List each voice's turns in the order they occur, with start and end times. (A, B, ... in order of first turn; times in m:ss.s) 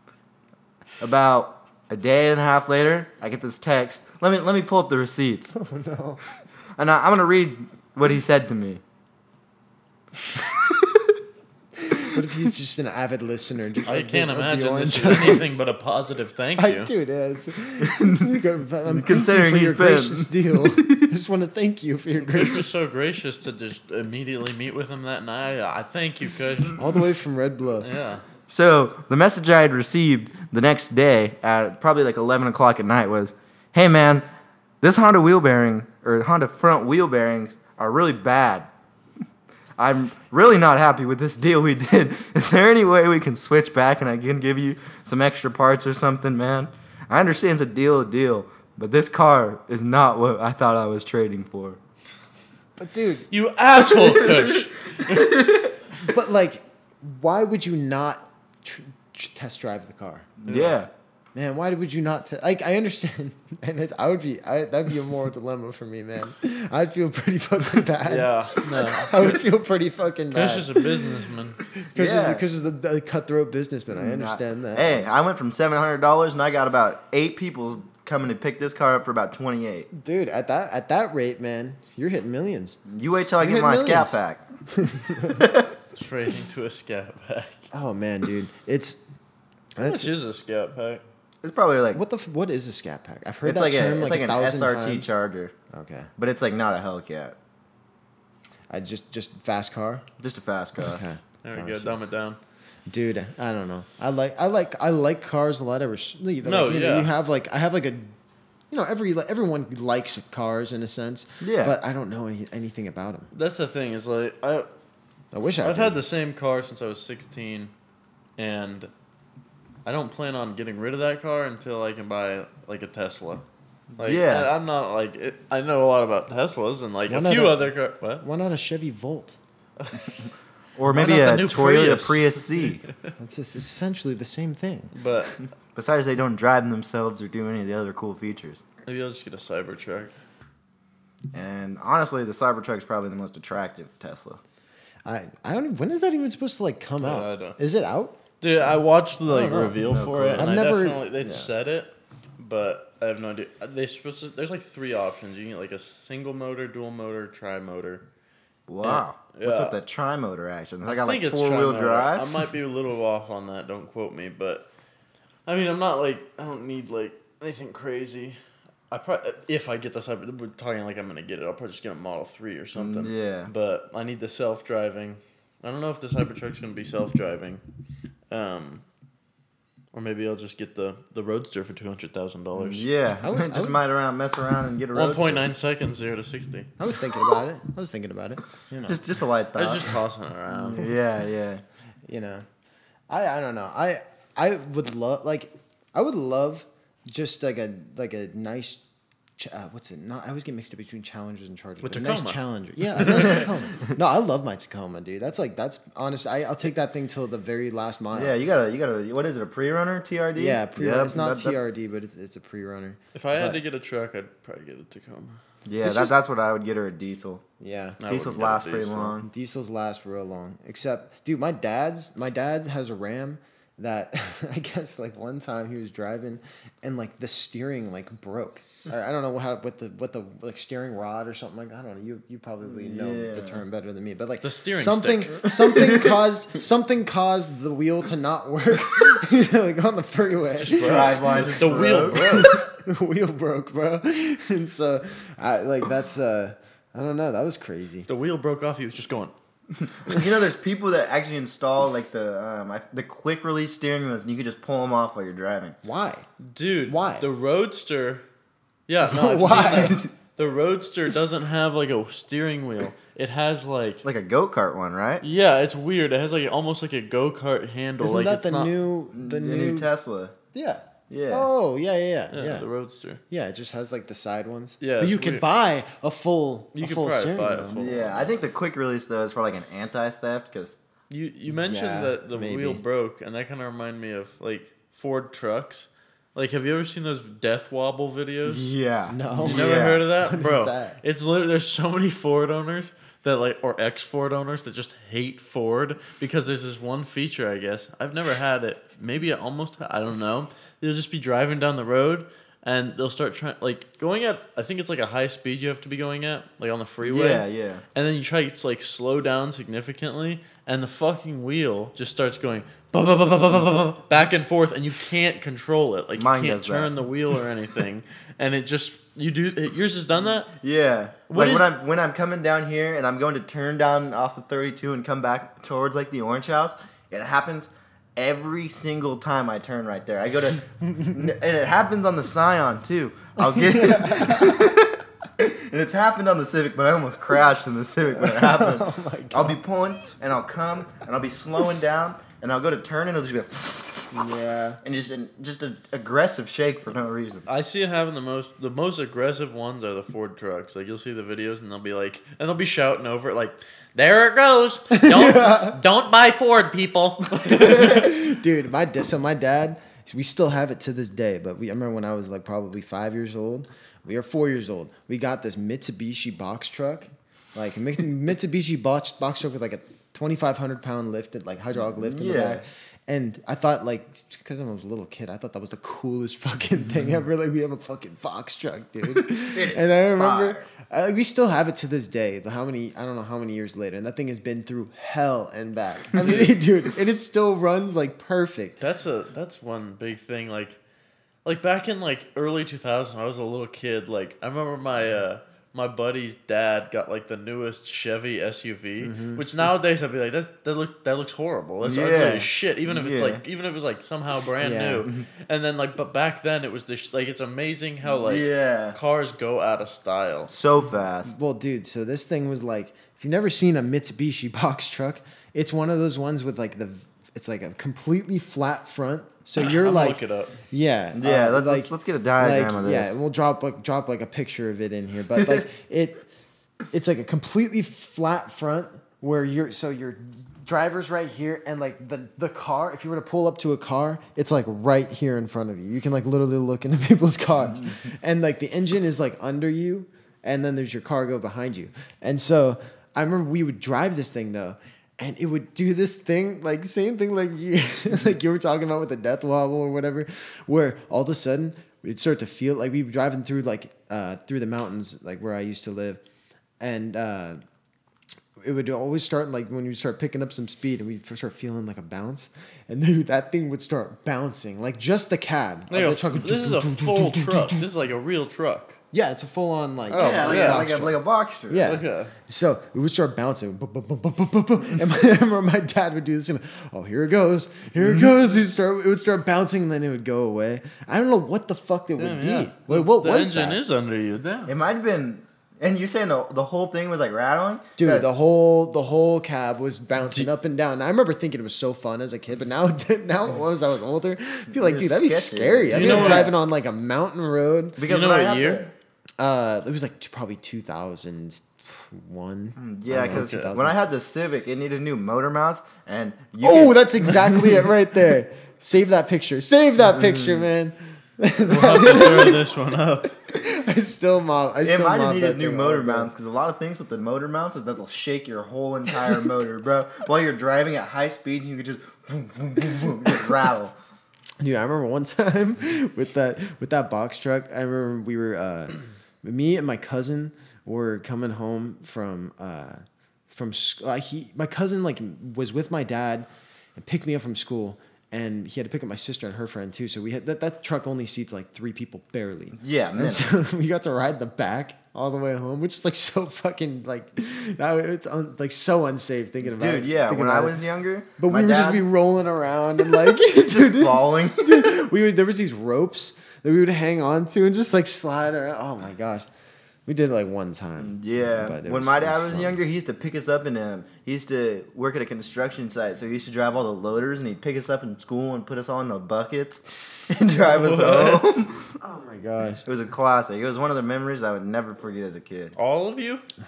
0:01.0-0:05.5 A
0:05.5-0:06.2 B
0:06.8-0:08.8 A
0:10.4-0:11.1 A
0:11.8-0:15.6 B
0:13.8-0:16.9 C
0:16.6-0:22.7 B
0:17.8-0:18.3 A
0:18.9-0:21.0 A
0:22.2-0:26.8 C
0:26.8-0:27.9 B
0:27.8-0:28.2 C
0:28.5-0:34.2 A
0:34.8-0:38.7 A
0:39.8-0:51.8 A
0:52.8-0:53.3 B
0:53.3-0:55.4 C
0:54.0-0:55.7 A
0:56.0-1:00.3 B
1:00.4-1:00.9 A
1:00.5-1:00.8 C
1:01.3-1:10.9 B
1:08.0-1:09.4 C
1:10.3-1:11.6 C
1:11.8-1:15.1 B
1:11.9-1:12.4 A
1:13.9-1:19.9 A
1:19.9-1:22.8 B
1:22.9-1:24.4 A
1:23.4-1:24.2 B
1:24.7-1:25.4 B
1:25.4-1:25.7 A
1:25.9-1:27.6 C
1:27.7-1:29.0 B
1:29.8-1:30.1 B
1:29.8-1:31.0 C
1:31.4-1:32.0 A
1:31.9-1:35.1 B
1:33.4-1:35.5 A
1:35.7-1:36.1 B
1:36.2-1:37.3 A
1:38.7-1:40.0 B
1:40.2-1:41.0 A
1:40.8-1:42.0 B
1:41.4-1:42.4 C
1:42.9-1:48.2 B
1:46.4-1:47.1 C
1:48.7-1:53.3 B
1:51.4-1:51.8 A
1:53.3-1:54.7 C
1:55.3-1:56.0 B
1:55.6-1:57.7 C
1:58.4-1:58.9 C
1:59.8-2:03.4 C
2:04.0-2:08.2 C
2:04.0-2:04.5 A
2:07.1-2:07.6 B
2:08.2-2:09.4 B
2:09.8-2:10.1 C
2:10.8-2:12.8 A
2:10.9-2:12.9 C
2:13.2-2:14.9 B
2:14.9-2:15.5 C
2:15.7-2:18.6 A
2:18.8-2:20.1 C
2:21.3-2:24.4 A
2:25.0-2:28.2 B
2:27.0-2:27.6 C
2:28.4-2:38.0 C
2:29.3-2:29.8 B
2:29.8-2:30.5 A
2:30.4-2:31.5 B
2:38.7-2:42.3 A
2:38.8-2:39.8 C
2:40.8-2:44.6 C
2:45.4-2:48.4 C
2:48.9-2:57.6 C
2:52.7-2:53.5 A
2:58.3-2:58.8 C
2:59.9-3:02.9 C
3:02.5-3:05.5 A
3:03.2-3:03.8 B
3:04.9-3:06.7 C
3:06.8-3:09.0 B
3:08.9-3:10.0 A
3:09.5-3:10.8 C
3:10.6-3:11.6 A
3:12.1-3:12.4 B
3:13.1-3:18.8 B
3:19.4-3:28.3 B
3:21.8-3:23.5 C
3:28.1-3:31.6 A
3:30.4-3:33.6 B
3:33.1-3:35.4 C
3:35.6-3:37.4 A
3:35.8-3:36.1 B
3:37.6-3:38.0 B
3:38.0-3:39.1 C
3:38.1-3:39.2 A
3:39.2-4:01.4 B
3:52.6-3:53.6 A
3:54.4-3:55.4 C
3:55.5-3:56.1 A
4:00.6-4:02.6 C
4:00.8-4:02.6 A
4:02.0-4:08.1 B
4:08.1-4:09.3 C
4:09.8-4:15.8 A
4:15.8-4:16.2 B
4:16.5-4:18.2 C
4:16.9-4:17.2 B
4:18.9-4:24.0 C
4:19.0-4:20.1 B
4:19.6-4:20.1 A
4:24.0-4:25.2 A
4:25.2-4:28.7 C
4:28.0-4:29.9 B
4:29.1-4:30.3 A
4:30.5-4:32.7 B
4:31.1-4:31.5 A
4:32.3-4:33.2 C
4:33.3-4:37.9 B
4:34.8-4:35.4 C
4:36.7-4:38.3 C
4:37.8-4:40.8 A
4:41.1-4:48.7 C
4:41.5-4:42.8 B
4:48.4-4:50.1 A
4:49.1-4:51.0 B
4:49.4-5:20.5 C
5:07.0-5:07.8 A
5:16.2-5:16.9 A
5:20.5-5:44.3 A
5:21.3-5:21.7 C
5:30.9-5:31.1 B
5:33.4-5:34.7 B
5:38.2-5:39.6 B
5:44.1-5:44.8 B
5:44.8-5:47.4 A
5:47.5-5:58.1 C
5:54.9-5:55.8 B
5:57.4-6:28.8 B
6:11.9-6:12.6 A
6:19.3-6:20.7 A
6:28.8-6:30.8 C
6:31.4-6:50.5 C
6:39.0-6:39.4 B
6:41.8-6:43.4 A
6:44.6-6:45.1 B
6:48.0-6:49.0 A
6:50.5-6:51.3 A
6:51.3-7:06.2 B
6:59.6-7:00.6 C
7:01.1-7:03.2 A
7:06.9-7:36.2 B
7:36.8-7:37.6 B
7:38.6-7:47.8 B
7:45.9-7:49.0 C
7:49.1-8:03.8 B
7:50.1-7:50.9 C
7:50.1-7:52.0 A
7:51.8-7:52.3 C
7:58.0-7:58.3 A
8:02.2-8:04.7 C
8:04.7-8:08.3 A
8:08.0-8:18.0 B
8:14.7-8:16.5 A
8:15.9-8:16.5 C
8:18.0-8:18.9 A
8:18.0-8:18.9 C
8:19.4-8:24.0 B
8:22.8-8:27.4 A
8:23.3-8:23.7 C
8:26.6-8:32.6 B
8:30.1-8:30.7 A
8:31.7-8:33.3 C
8:33.5-8:36.3 B
8:34.8-8:43.9 A
8:44.6-9:10.8 B
9:02.8-9:03.4 A
9:09.6-9:12.0 A
9:11.4-9:19.5 B
9:13.1-9:14.9 A
9:20.0-9:22.8 B
9:21.0-9:31.9 A
9:30.6-9:31.6 C
9:32.0-9:32.9 B
9:32.8-9:35.7 A
9:35.8-9:36.4 C